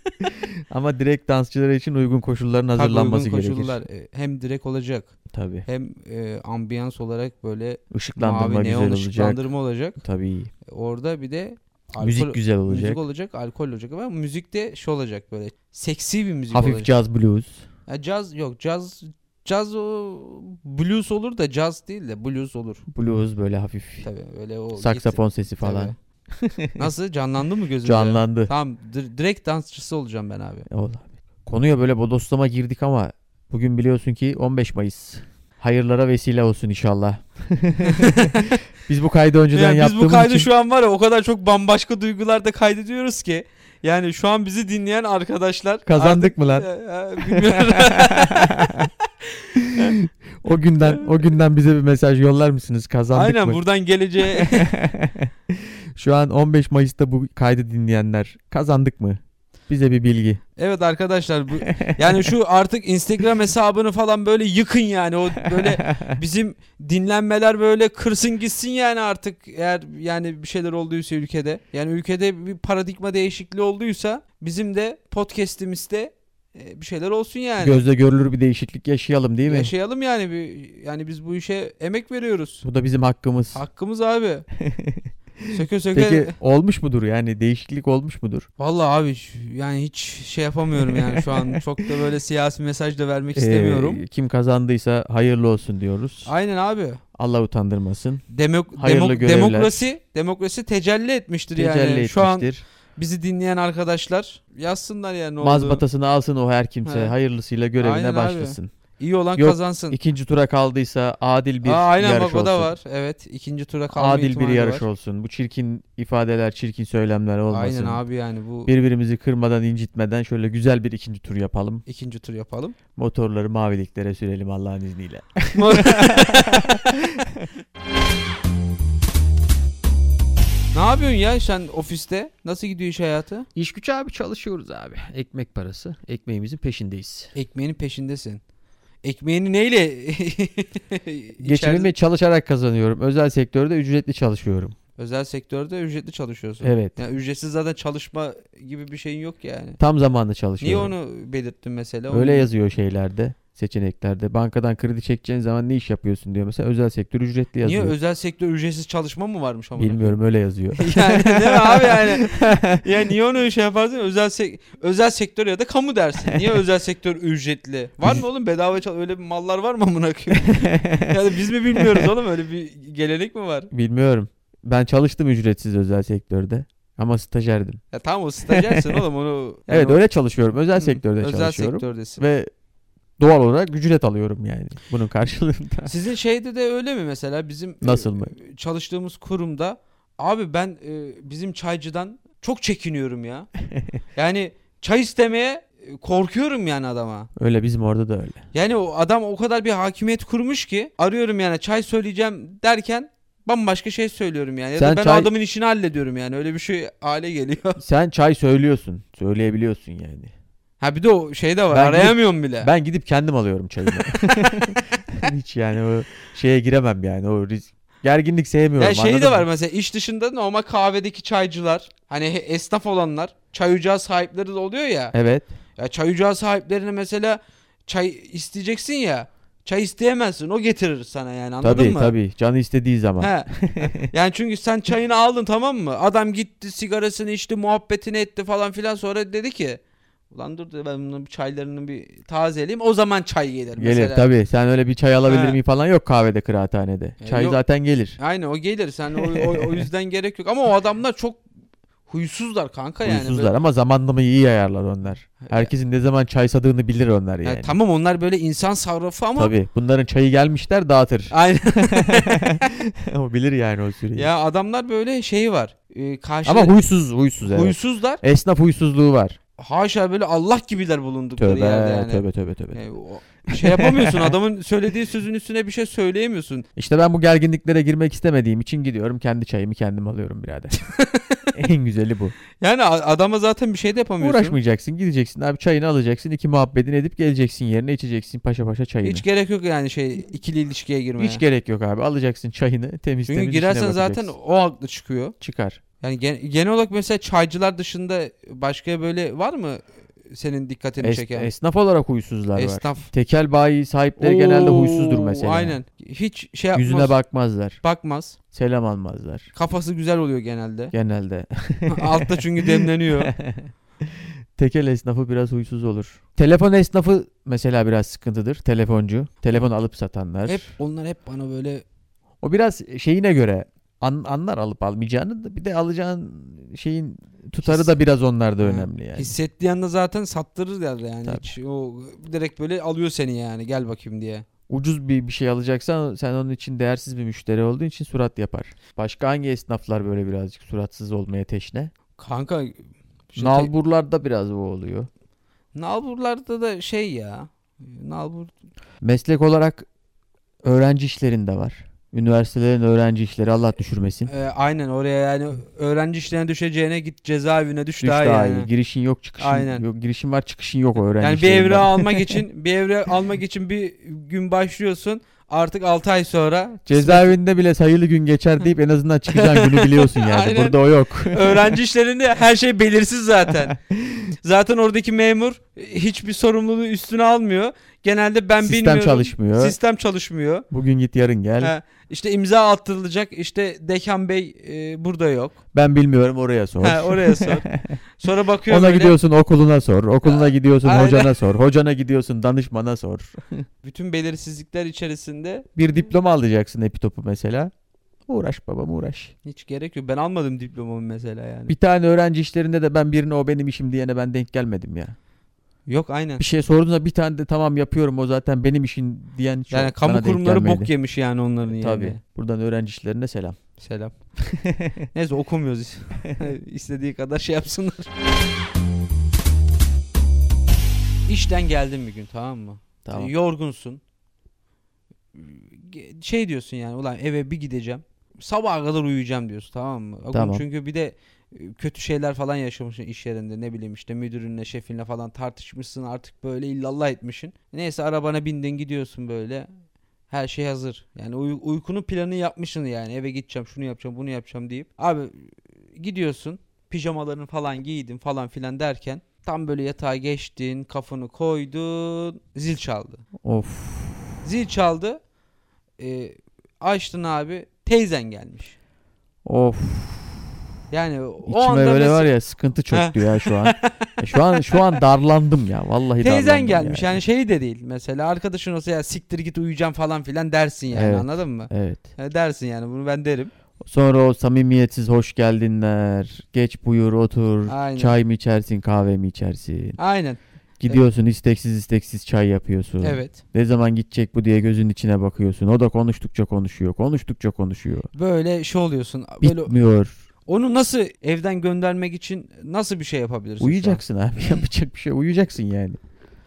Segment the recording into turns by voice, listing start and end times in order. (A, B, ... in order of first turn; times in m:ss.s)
0:00.2-0:03.8 A
0:02.8-0:05.1 B
0:05.3-0:05.6 A
0:05.7-0:10.0 B
0:07.9-0:09.4 A
0:10.0-0:10.5 A
0:10.7-0:16.9 B
0:12.0-0:13.0 A
0:16.5-0:17.6 A
0:17.9-0:22.8 B
0:22.9-0:24.1 A
0:24.0-0:25.9 B
0:24.8-0:26.9 A
0:26.8-0:30.7 B
0:27.8-0:28.5 A
0:30.7-0:40.5 A
0:37.9-0:38.6 B
0:39.5-0:49.9 B
0:45.9-0:46.7 A
0:47.2-0:48.9 A
0:49.6-0:53.6 A
0:50.9-0:51.3 B
0:53.1-0:54.7 B
0:54.3-1:00.4 A
1:00.6-1:17.8 B
1:01.7-1:02.3 A
1:05.5-1:06.1 A
1:17.6-1:19.7 A
1:19.5-1:22.6 B
1:22.6-1:23.6 A
1:23.5-1:24.4 B
1:24.6-1:28.5 A
1:25.5-1:26.3 B
1:28.6-1:34.0 B
1:30.9-1:31.6 A
1:33.4-1:36.3 A
1:36.3-1:37.0 B
1:37.2-1:38.2 A
1:38.3-1:45.8 B
1:38.8-1:39.9 A
1:41.6-1:42.6 A
1:45.4-1:48.7 A
1:46.9-1:47.1 B
1:47.8-1:50.0 B
1:49.4-1:52.8 A
1:51.6-1:54.8 B
1:53.9-1:58.0 A
1:57.5-1:58.7 B
1:58.7-2:01.8 A
2:01.9-2:02.8 B
2:03.0-2:07.4 A
2:05.6-2:06.9 B
2:10.7-2:13.4 B
2:13.6-2:17.3 A
2:17.3-2:18.4 B
2:19.0-2:21.9 B
2:21.4-2:24.8 A
2:25.0-2:29.8 B
2:26.6-2:27.0 A
2:29.8-2:30.9 A
2:30.6-2:32.5 B
2:32.1-2:37.9 A
2:37.6-2:40.2 B
2:39.8-2:42.8 A
2:40.8-2:53.7 B
2:50.5-2:51.2 A
2:51.8-2:52.1 A
2:53.7-2:57.8 A
2:57.9-3:00.0 B
2:58.5-2:59.0 A
2:59.7-3:02.5 A
3:00.8-3:02.2 B
3:03.2-3:05.9 A
3:05.9-3:13.5 B
3:07.8-3:08.3 A
3:14.2-3:17.3 B
3:17.4-3:18.4 A
3:18.5-3:27.8 B
3:24.8-3:25.3 A
3:27.8-3:30.3 A
3:30.8-3:32.7 B
3:31.7-3:39.5 A
3:33.9-3:34.8 B
3:38.8-3:45.2 B
3:45.1-3:45.5 A
3:45.8-3:52.1 B
3:51.6-3:54.1 A
3:53.2-4:04.3 B
4:03.8-4:08.2 A
4:05.2-4:05.6 B
4:07.2-4:07.6 B
4:08.2-4:11.4 B
4:09.3-4:09.9 A
4:12.1-4:13.5 B
4:13.0-4:17.7 A
4:15.4-4:15.7 B
4:17.4-4:19.5 B
4:19.4-4:21.4 A
4:21.3-4:22.7 B
4:21.9-4:24.3 A
4:24.1-4:26.7 B
4:26.4-4:29.4 A
4:27.4-4:28.2 B
4:29.6-4:36.6 B
4:31.4-4:32.8 A
4:33.5-4:34.4 A
4:36.8-4:40.8 A
4:40.9-4:41.5 B
4:41.5-4:42.4 A
4:42.6-4:44.6 B
4:44.2-4:49.2 A
4:49.0-4:51.4 B
4:51.2-4:54.3 A
4:53.3-4:55.4 B
4:55.4-4:55.8 A
4:56.0-5:01.5 B
5:01.0-5:05.8 A
5:02.6-5:03.1 B
5:04.2-5:07.1 B
5:06.8-5:07.8 A
5:07.8-5:08.4 B
5:08.5-5:09.5 A
5:09.6-5:10.9 B
5:10.9-5:20.7 A
5:11.9-5:13.3 B
5:20.4-5:21.8 B
5:22.4-5:29.3 A
5:27.6-5:27.9 B
5:28.6-5:34.4 B
5:31.2-5:31.5 A
5:34.7-5:41.9 A
5:42.2-5:42.8 B
5:43.3-5:43.7 B
5:43.4-5:45.1 A
5:45.8-5:48.5 B
5:49.0-5:49.9 A
5:50.6-5:54.3 A
5:54.3-5:58.7 B
5:58.0-6:02.4 A
5:59.4-5:59.8 B
6:01.1-6:07.4 B
6:06.9-6:11.8 A
6:09.3-6:13.8 B
6:14.4-6:20.7 B
6:18.6-6:19.8 A
6:20.7-6:21.7 A
6:21.6-6:25.6 B
6:25.7-6:28.0 A
6:26.8-6:27.7 B
6:28.2-6:29.2 B
6:28.7-6:33.6 A
6:30.2-6:31.4 B
6:33.8-6:35.7 B
6:35.8-6:37.7 A
6:38.3-6:39.3 A
6:39.4-6:41.8 B
6:41.7-6:45.1 A
6:45.9-6:46.4 B
6:46.4-6:50.9 A
6:49.7-6:52.2 B
6:51.8-6:53.6 A
6:53.8-6:54.2 B
6:54.6-6:55.1 A
6:55.1-6:58.1 B
7:01.3-7:04.0 B
7:03.0-7:03.3 A
7:05.4-7:19.7 B
7:10.3-7:10.6 A
7:20.3-7:33.2 B
7:33.4-7:34.4 A
7:34.4-7:35.2 B
7:36.0-7:38.8 B
7:39.4-7:40.4 A
7:40.9-7:42.4 B
7:41.4-7:47.2 A
7:42.9-7:43.9 B
7:44.6-7:45.0 B
7:46.2-7:53.5 B
7:50.9-7:52.1 A
7:53.8-8:00.0 A
7:57.7-7:58.2 B
8:00.0-8:01.0 B
8:00.8-8:08.1 A
8:03.0-8:03.4 B
8:08.1-8:09.7 B
8:09.4-8:10.2 A
8:10.5-8:14.0 B
8:13.6-8:16.0 A